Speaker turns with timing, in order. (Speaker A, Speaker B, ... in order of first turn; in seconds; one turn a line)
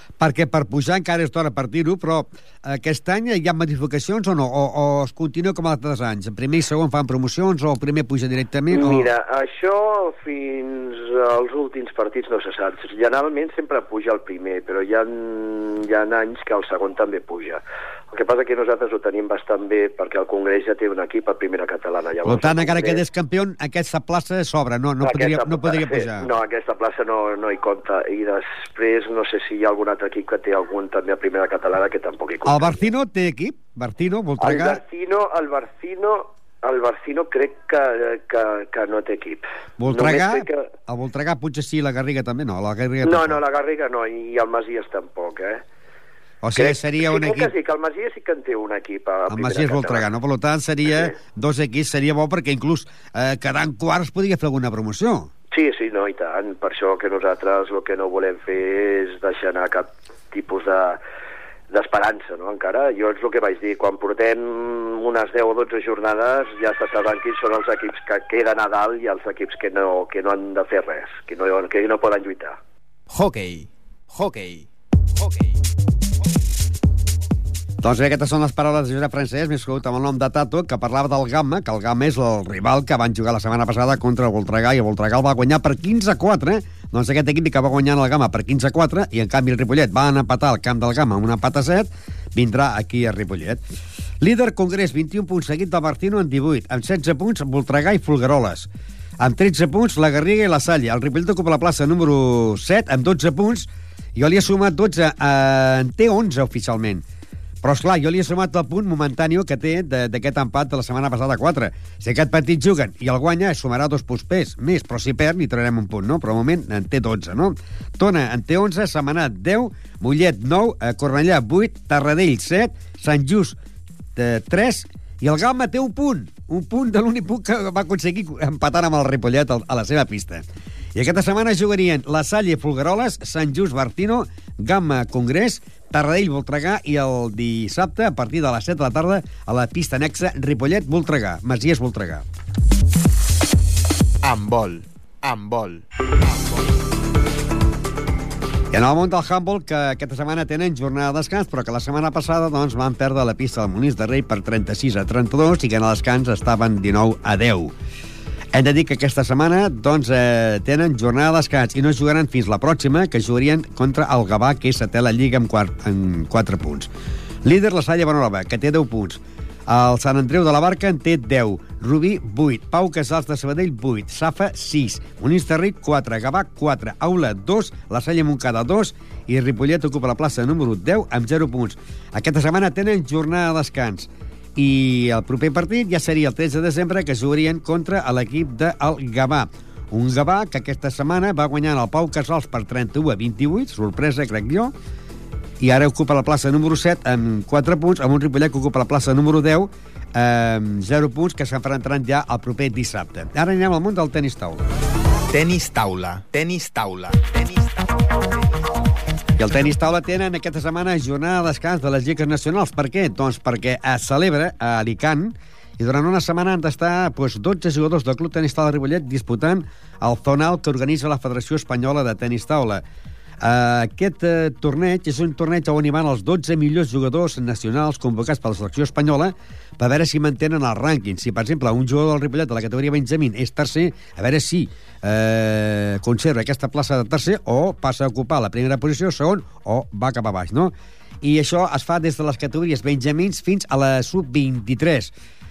Speaker A: 0.2-9.1
Speaker B: 8.7-23.0
Speaker A: 22.2-26.3
Speaker B: 25.0-32.8
Speaker A: 32.5-34.8
Speaker B: 34.4-40.7
Speaker A: 39.8-43.4
Speaker B: 43.0-45.6
Speaker A: 46.4-47.5
Speaker B: 46.5-50.1
Speaker A: 49.3-55.3
Speaker B: 50.9-51.1
Speaker B: 55.5-61.0
Speaker B: 61.7-72.6
Speaker C: 73.1-75.6
Speaker A: 77.8-93.6
Speaker A: 94.2-98.7
Speaker A: 99.2-107.0
Speaker A: 107.6-123.6
Speaker A: 124.2-142.2
Speaker C: 144.2-145.8
Speaker A: 148.7-157.7
Speaker A: 158.5-166.9
Speaker A: 167.4-194.7
Speaker A: 195.6-204.6
Speaker C: 205.3-207.9
Speaker A: 209.4-222.8
Speaker A: 223.4-245.1